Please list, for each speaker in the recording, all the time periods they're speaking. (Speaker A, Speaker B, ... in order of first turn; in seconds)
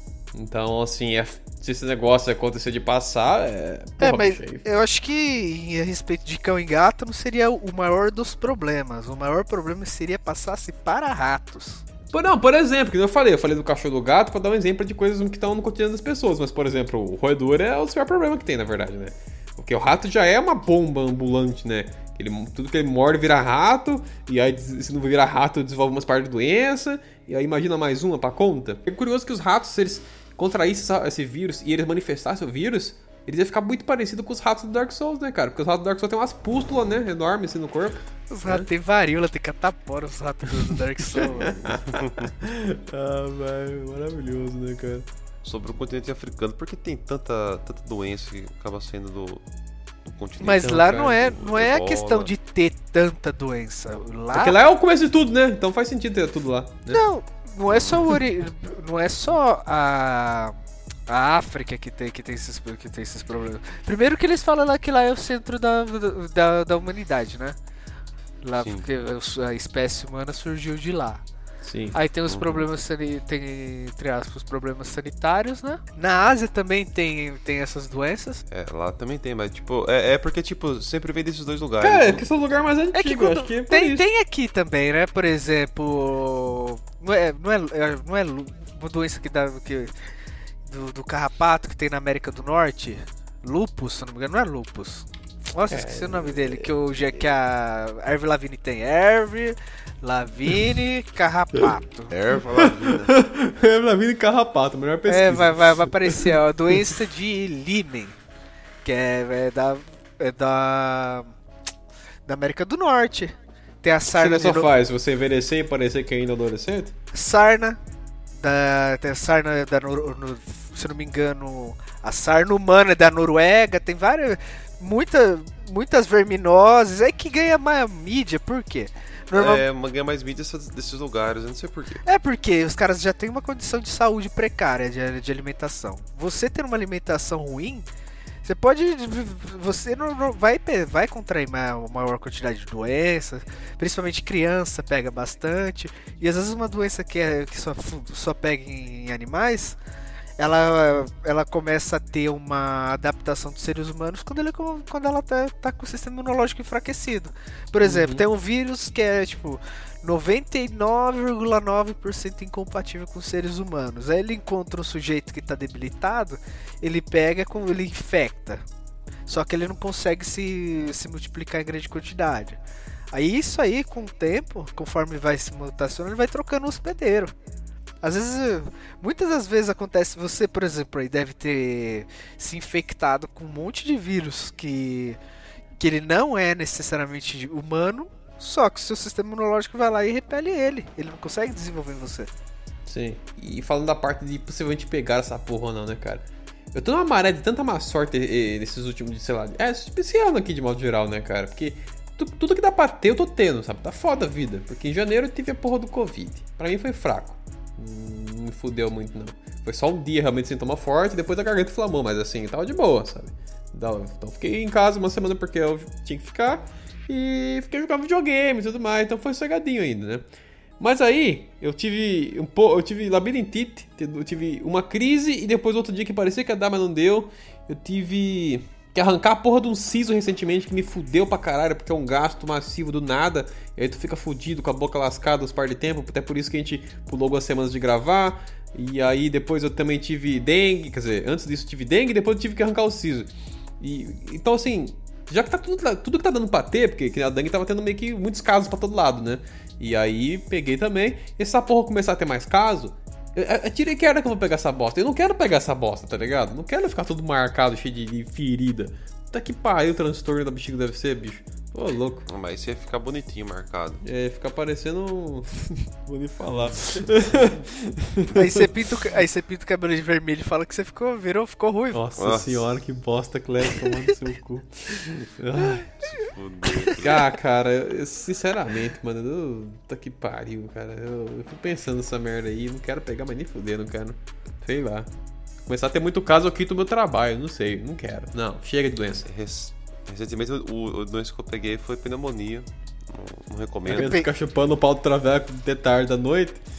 Speaker A: 0.3-4.7, 12.1-38.7, 41.1-45.1, 50.6-51.2, 54.3-57.0, 71.6-72.0, 81.8-84.0, 95.7-96.8, 102.6-106.3, 114.1-116.9, 157.8-158.2, 192.9-220.2, 220.8-243.3, 243.8-262.3, 264.0-268.7, 271.9-275.9, 277.0-285.1, 285.7-289.3, 293.9-296.6
Speaker B: 4.0-11.8, 38.3-41.8, 50.4-54.5, 56.9-60.6, 61.1-67.6, 68.4-71.2, 71.9-78.4, 82.9-89.9, 90.7-102.1, 105.1-108.2, 108.8-111.3, 112.3-114.7, 117.1-117.8, 118.4-129.6, 132.1-137.9, 138.4-149.8, 150.4-168.6, 169.3-172.6, 173.1-177.3, 178.0-185.2, 185.8-192.3, 268.3-272.0, 293.9-294.3
Speaker C: 41.9-42.3, 45.4-49.5, 50.0-52.3, 57.7-58.0, 68.6-68.9, 72.3-72.6, 78.5-82.3, 102.1-103.1, 129.3-132.0, 262.3-264.0, 272.2-272.6, 275.9-277.3, 289.2-294.2